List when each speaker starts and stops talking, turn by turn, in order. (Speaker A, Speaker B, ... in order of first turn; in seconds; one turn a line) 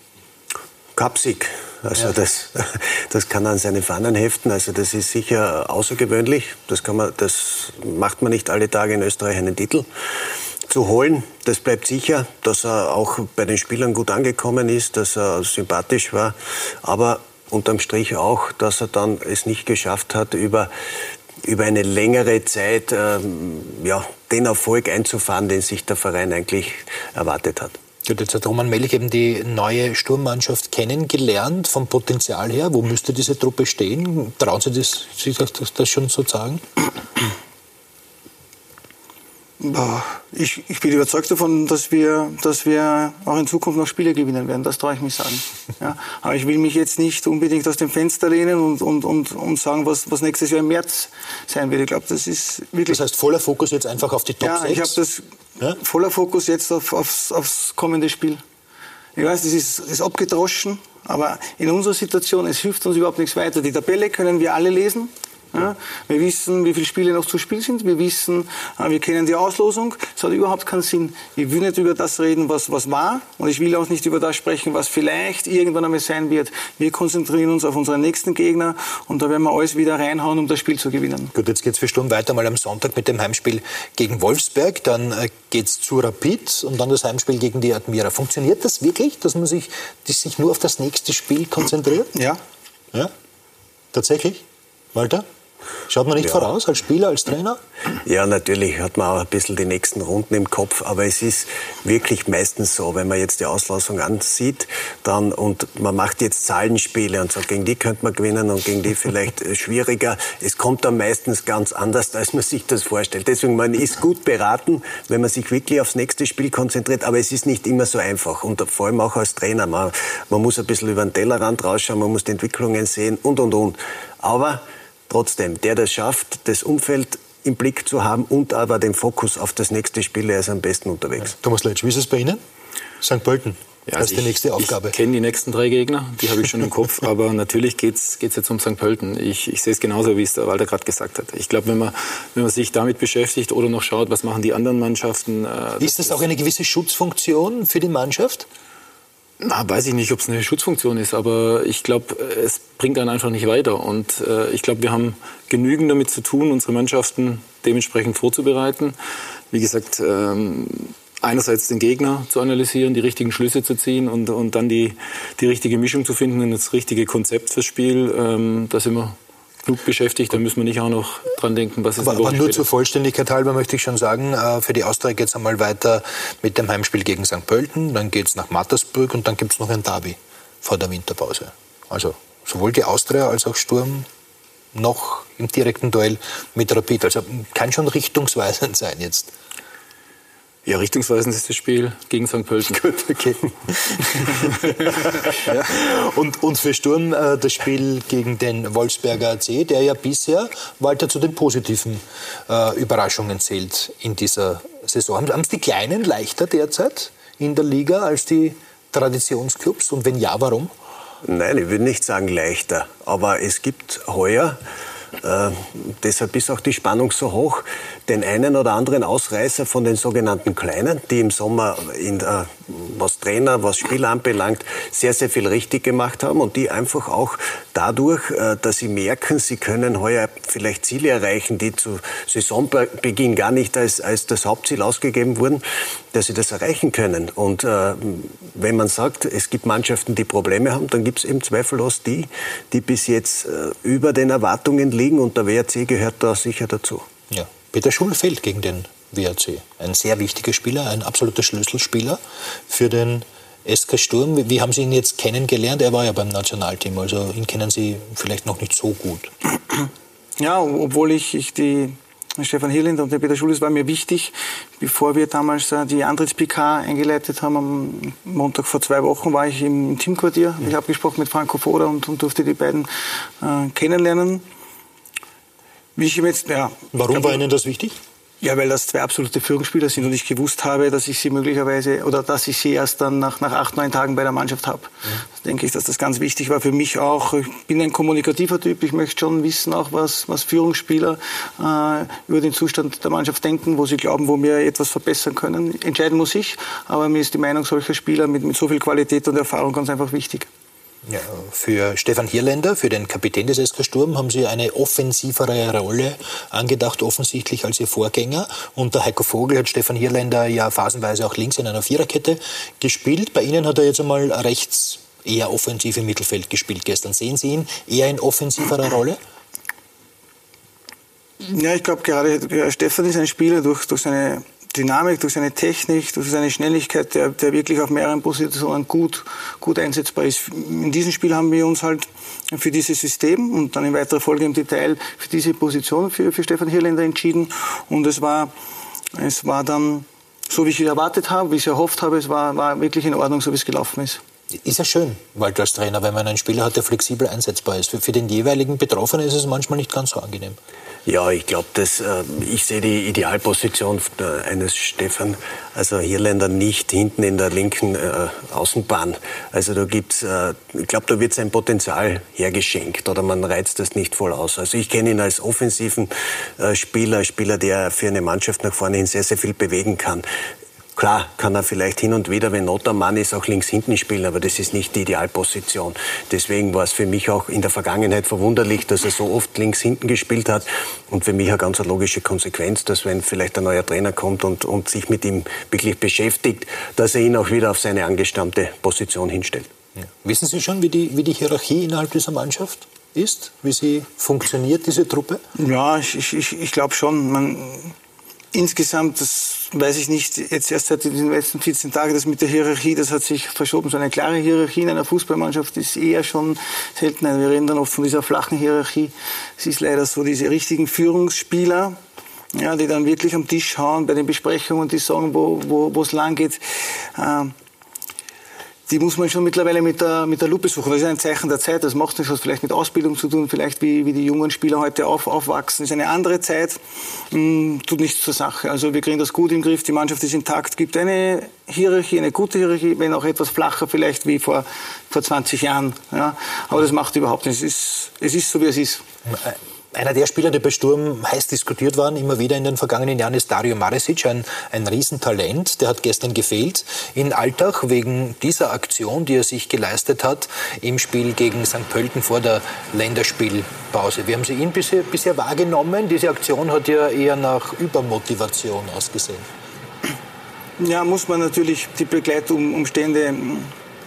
Speaker A: 0.9-9.9
Speaker A: 10.7-20.7
Speaker A: 21.4-27.8
Speaker B: 28.0-36.6
Speaker C: 39.6-53.0
Speaker B: 52.9-55.0
Speaker C: 54.4-55.2
Speaker C: 55.8-58.4
Speaker C: 59.1-81.3
Speaker B: 81.3-92.1
Speaker C: 92.1-92.4
Speaker B: 93.9-94.4
Speaker B: 94.9-95.2
Speaker B: 95.9-97.6
Speaker A: 98.0-131.3
Speaker B: 131.2-132.4
Speaker B: 133.0-134.9
Speaker D: 133.9-146.2
Speaker B: 145.8-148.4
Speaker D: 149.4-158.9
Speaker D: 159.5-172.7
Speaker B: 172.0-184.1
Speaker B: 184.7-189.3
Speaker D: 190.7-192.8
Speaker B: 194.0-210.7
Speaker A: 211.2-214.6
Speaker A: 215.2-247.1
Speaker B: 247.3-259.3
Speaker C: 260.4-272.9
Speaker C: 273.4-274.4
Speaker C: 275.9-277.4
Speaker B: 276.9-278.0
Speaker C: 278.4-300.5
Speaker B: 301.1-319.2
Speaker C: 321.4-338.5
Speaker C: 339.1-344.2
Speaker B: 344.5-350.6
Speaker A: 351.1-370.2
Speaker A: 370.9-389.7
Speaker B: 390.2-395.4
Speaker C: 395.6-397.9
Speaker C: 398.5-412.0
Speaker C: 412.5-417.5
Speaker C: 418.9-426.8
Speaker C: 427.3-439.0
Speaker B: 439.2-459.4
Speaker C: 460.8-463.7